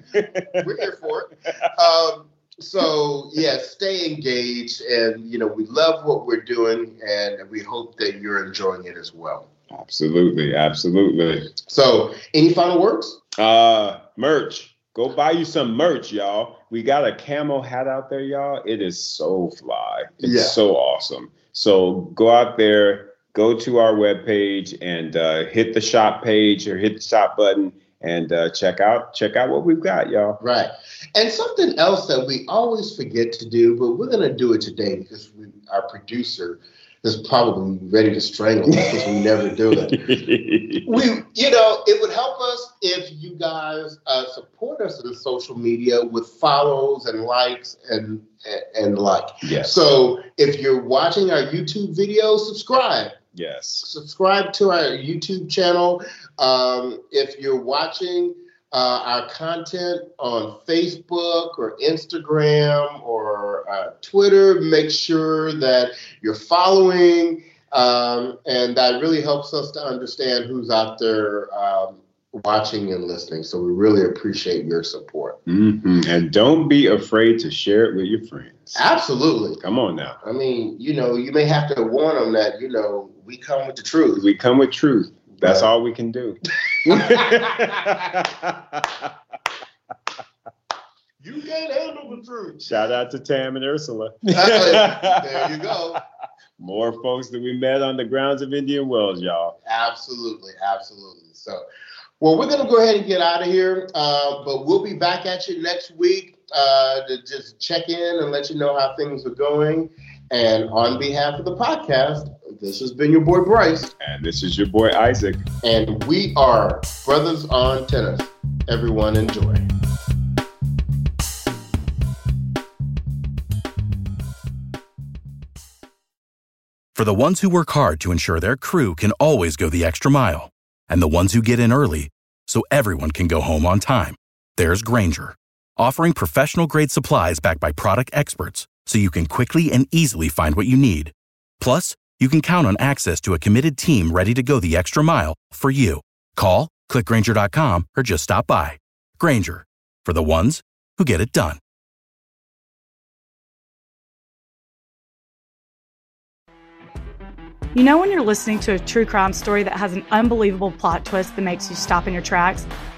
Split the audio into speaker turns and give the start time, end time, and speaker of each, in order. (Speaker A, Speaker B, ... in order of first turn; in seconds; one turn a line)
Speaker A: 0.1-0.7
Speaker B: 0.5-9.5
Speaker A: 9.7-11.5
Speaker B: 11.6-13.2
Speaker A: 13.4-30.4
Speaker B: 20.2-20.6
Speaker B: 30.4-40.0
Speaker A: 38.7-39.2
Speaker A: 39.7-41.0
Speaker B: 40.9-53.2
Speaker A: 49.4-49.8
Speaker A: 53.3-53.9
Speaker B: 53.8-75.4
Speaker A: 75.5-78.8
Speaker B: 78.8-79.6
Speaker A: 79.6-80.2
Speaker B: 80.2-84.3
Speaker A: 84.2-89.1
Speaker B: 85.4-85.7
Speaker B: 86.8-88.0
Speaker B: 91.2-92.7
Speaker A: 92.7-95.7
Speaker B: 94.3-96.0
Speaker A: 96.6-99.6
Speaker B: 99.7-101.6
Speaker B: 102.2-113.9
Speaker A: 114.0-115.5
Speaker B: 115.6-119.7
Speaker C: 127.0-151.6
Speaker D: 157.7-162.7